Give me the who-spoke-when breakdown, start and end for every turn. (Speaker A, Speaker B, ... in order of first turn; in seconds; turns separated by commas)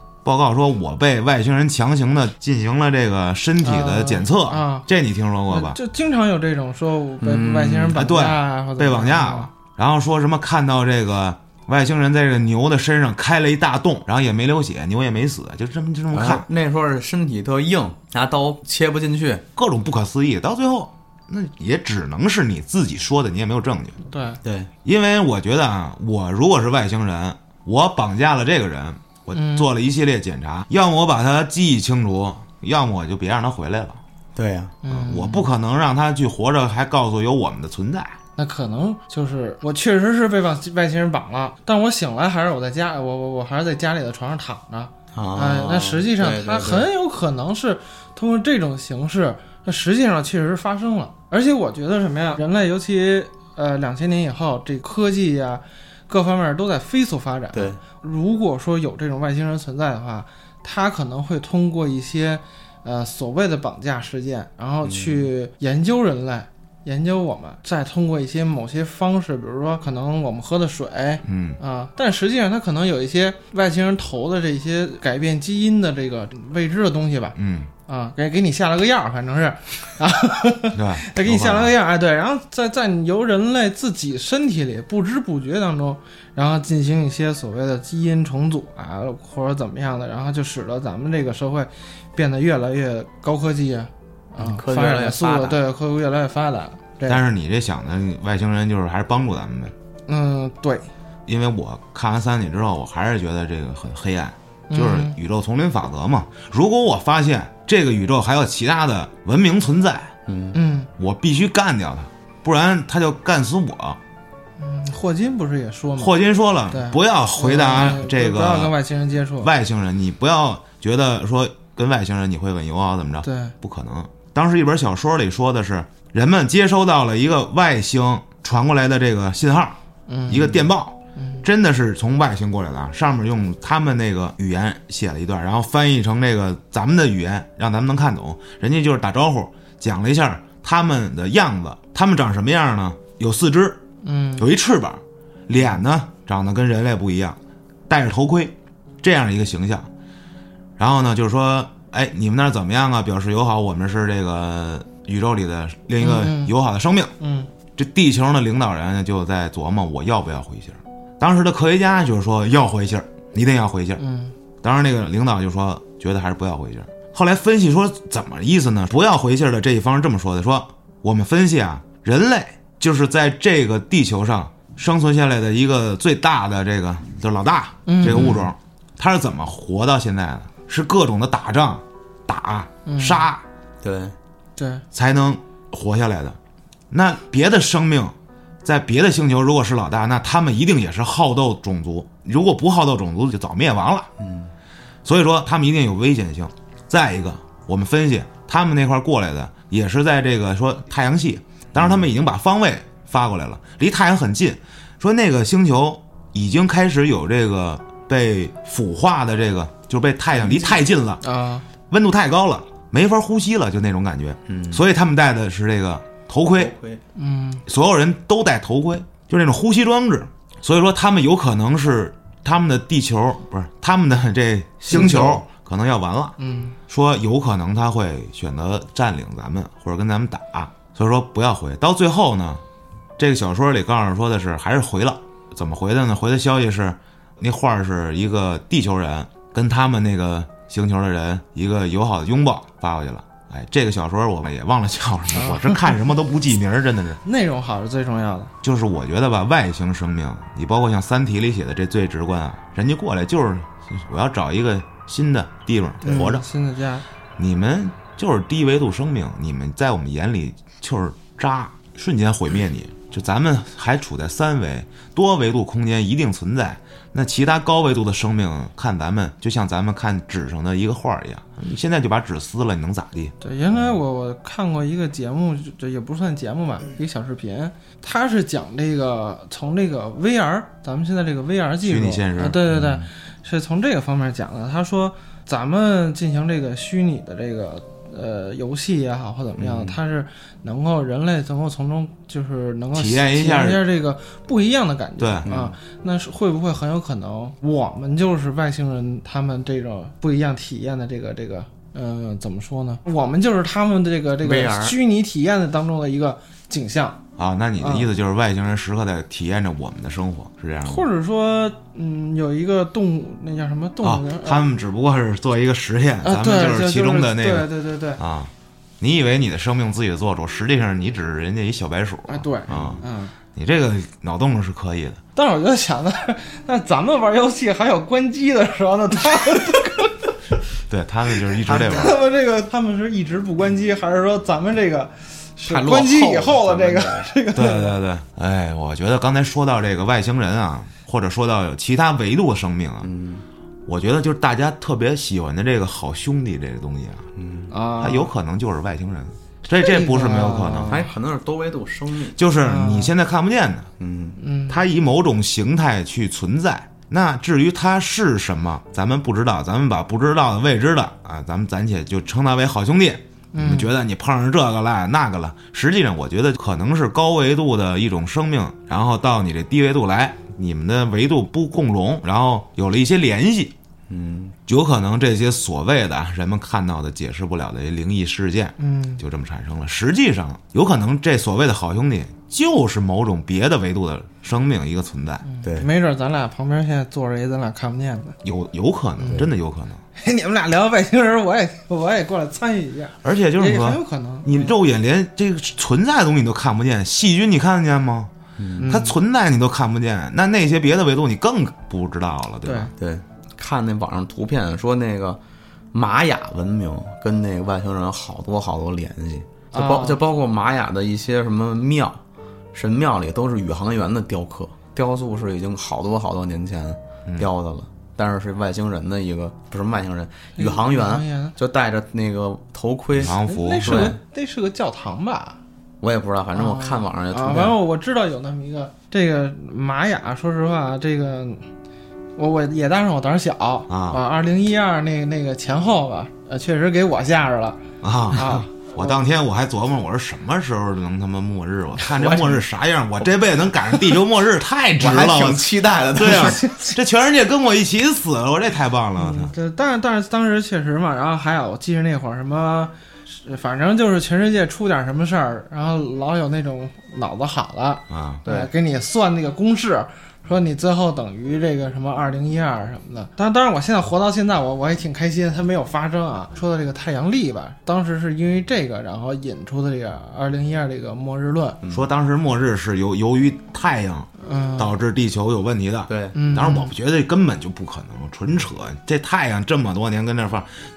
Speaker A: 0.2-5.8, Speaker B: 3.6-4.9, Speaker B: 5.5-9.5, Speaker C: 7.2-8.0, Speaker A: 7.9-16.5, Speaker C: 16.1-19.4, Speaker A: 19.6-24.0, Speaker B: 24.1-24.4, Speaker C: 24.4-24.7, Speaker A: 24.9-34.0, Speaker B: 29.3-29.7, Speaker C: 34.4-34.8, Speaker B: 34.8-35.5, Speaker A: 34.9-38.2, Speaker B: 38.4-77.4, Speaker C: 45.1-46.9, Speaker C: 57.5-57.8, Speaker C: 64.8-65.3, Speaker A: 71.2-71.6, Speaker A: 77.4-77.7, Speaker B: 77.9-97.2, Speaker A: 80.7-81.7, Speaker C: 94.4-95.6, Speaker A: 97.1-99.7, Speaker B: 100.1-100.9, Speaker A: 101.3-110.1, Speaker B: 104.7-105.2, Speaker C: 110.3-110.6, Speaker B: 110.5-110.9, Speaker A: 111.0-114.0, Speaker B: 114.6-116.1, Speaker A: 116.0-118.7, Speaker B: 116.7-119.5, Speaker A: 119.4-143.8, Speaker B: 123.2-123.5, Speaker B: 130.1-131.4, Speaker B: 144.0-144.5, Speaker A: 144.4-149.9, Speaker A: 150.8-157.2, Speaker B: 156.0-156.5, Speaker B: 157.2-157.5, Speaker A: 157.8-164.0, Speaker B: 164.0-164.3, Speaker A: 164.6-183.4, Speaker B: 177.9-178.5, Speaker C: 178.0-178.4, Speaker B: 182.9-183.3, Speaker C: 183.8-184.2, Speaker B: 184.6-184.8, Speaker A: 184.9-186.4, Speaker A: 186.9-194.1, Speaker C: 194.2-194.5, Speaker A: 195.1-211.2, Speaker C: 201.8-202.0, Speaker B: 211.2-211.7, Speaker A: 211.9-216.7, Speaker C: 214.5-214.8, Speaker C: 216.6-217.0, Speaker B: 217.2-217.6, Speaker A: 217.7-226.4, Speaker B: 224.8-225.4, Speaker C: 224.9-225.4, Speaker B: 226.4-226.8, Speaker A: 226.9-232.6, Speaker A: 233.2-247.2, Speaker B: 245.3-245.8, Speaker B: 247.2-248.5, Speaker A: 248.6-256.4, Speaker B: 256.0-257.1, Speaker A: 257.4-273.3, Speaker B: 273.4-307.2, Speaker A: 281.8-283.0, Speaker C: 289.6-289.9, Speaker A: 292.9-293.9, Speaker A: 295.2-295.5, Speaker C: 295.4-295.8, Speaker C: 304.4-305.0, Speaker A: 307.4-311.1, Speaker B: 307.8-308.1, Speaker B: 310.9-314.6, Speaker A: 314.0-323.0, Speaker B: 316.2-318.2, Speaker B: 322.3-323.3, Speaker A: 323.5-325.2, Speaker B: 325.4-330.3, Speaker A: 330.9-332.2, Speaker B: 331.7-338.0, Speaker C: 331.7-332.1, Speaker C: 335.6-337.3, Speaker A: 337.5-343.1, Speaker C: 343.0-343.4, Speaker A: 343.9-347.3, Speaker C: 347.4-347.7, Speaker B: 347.7-348.3, Speaker A: 348.0-351.1, Speaker B: 349.8-351.1, Speaker C: 350.9-352.4, Speaker A: 352.4-353.9, Speaker B: 352.6-353.1, Speaker C: 354.0-354.4, Speaker B: 354.4-354.9, Speaker A: 354.7-373.7, Speaker B: 363.5-363.9, Speaker C: 374.1-374.6, Speaker A: 374.7-385.4, Speaker B: 378.8-379.2, Speaker B: 385.4-388.4, Speaker C: 385.6-385.9, Speaker A: 388.4-390.0, Speaker B: 390.2-394.7, Speaker A: 393.2-398.3, Speaker C: 398.6-398.9, Speaker B: 398.8-399.2, Speaker A: 398.9-402.9, Speaker B: 402.6-402.9, Speaker C: 403.0-405.4, Speaker C: 405.9-412.2, Speaker B: 409.7-410.2, Speaker C: 412.7-424.2, Speaker B: 420.6-421.6, Speaker A: 423.1-424.1, Speaker B: 423.4-425.6, Speaker C: 426.0-427.8, Speaker B: 426.5-431.7, Speaker B: 432.4-437.8, Speaker A: 433.9-434.2, Speaker A: 438.0-449.5, Speaker B: 438.3-439.1, Speaker C: 442.0-442.6, Speaker C: 445.0-446.9, Speaker B: 449.2-471.8, Speaker A: 458.1-458.4, Speaker C: 458.4-458.7, Speaker C: 471.8-472.1, Speaker A: 471.9-480.7, Speaker B: 474.4-474.9, Speaker C: 476.1-476.4, Speaker B: 476.3-476.9